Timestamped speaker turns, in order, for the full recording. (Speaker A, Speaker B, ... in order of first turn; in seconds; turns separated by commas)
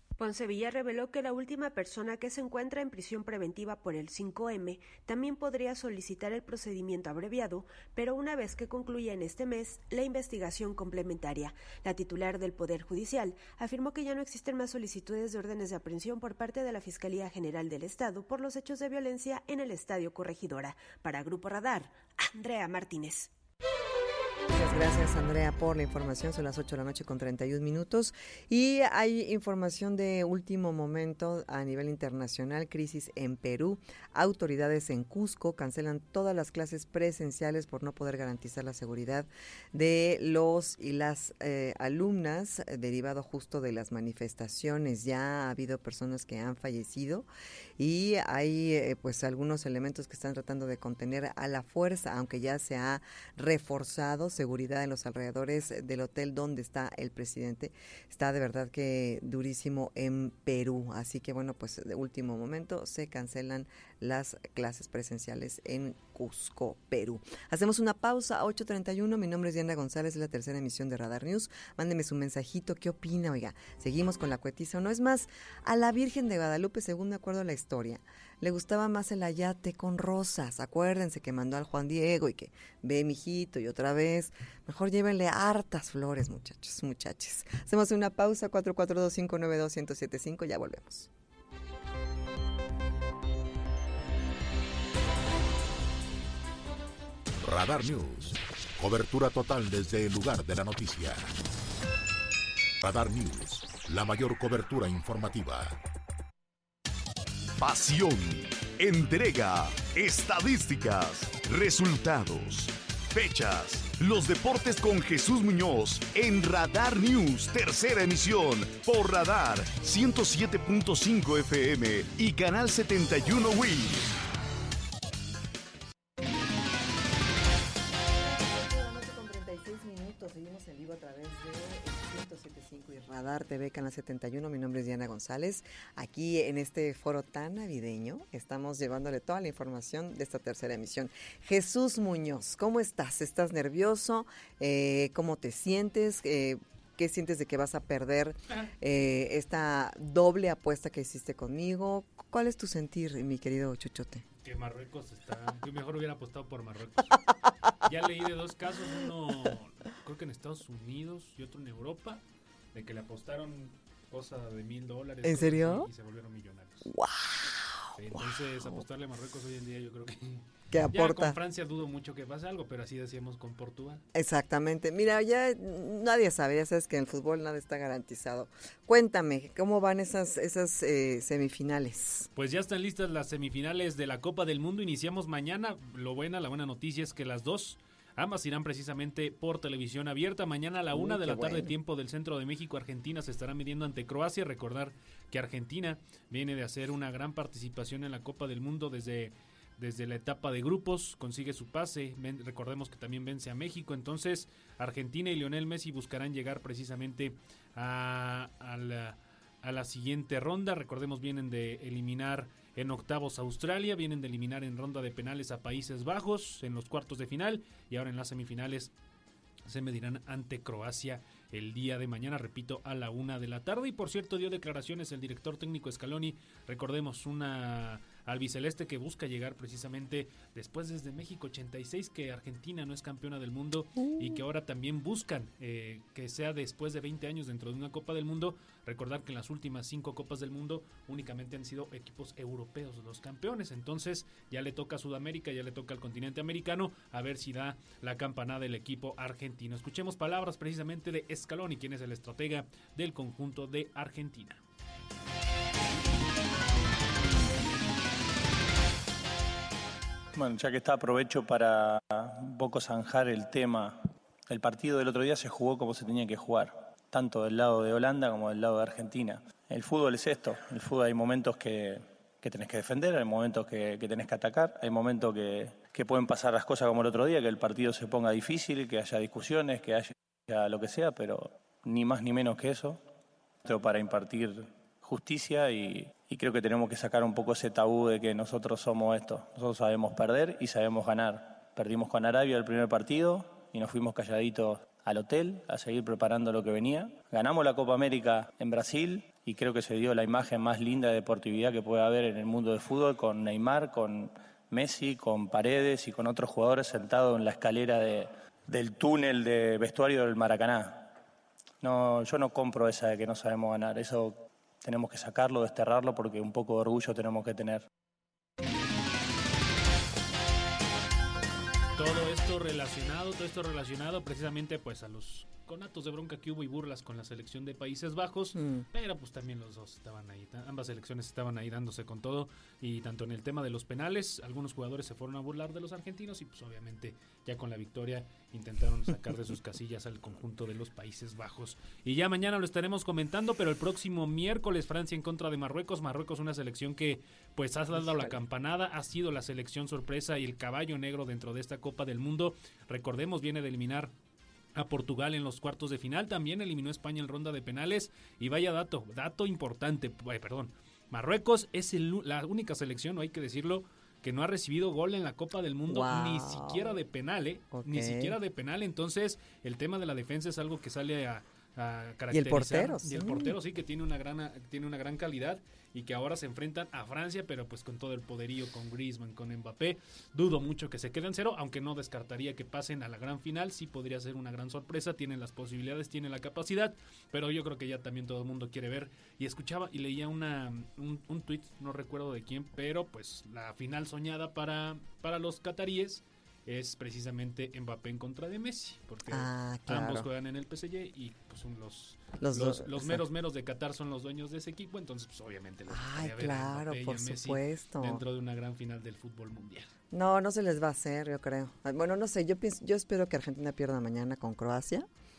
Speaker A: 0.2-23.3, Speaker B: 24.5-47.3, Speaker B: 47.8-91.1, Speaker C: 97.4-101.3, Speaker C: 102.8-105.8, Speaker D: 107.6-124.2, Speaker B: 128.1-154.2, Speaker E: 154.4-157.2, Speaker E: 157.8-166.9, Speaker B: 165.2-165.9, Speaker B: 166.9-168.8, Speaker E: 168.0-174.0, Speaker B: 170.7-171.4, Speaker B: 174.1-182.3, Speaker E: 182.4-218.9, Speaker B: 190.9-191.8, Speaker E: 219.7-254.6, Speaker B: 234.0-234.4, Speaker F: 260.4-283.0, Speaker F: 283.6-311.1, Speaker F: 311.8-317.9, Speaker E: 322.0-354.1, Speaker B: 328.6-328.9, Speaker B: 347.9-348.4, Speaker E: 354.8-409.9, Speaker B: 365.9-367.0, Speaker B: 367.7-368.4, Speaker B: 372.3-373.6, Speaker B: 399.3-400.3, Speaker B: 402.4-403.2, Speaker B: 405.9-408.2, Speaker B: 410.1-415.1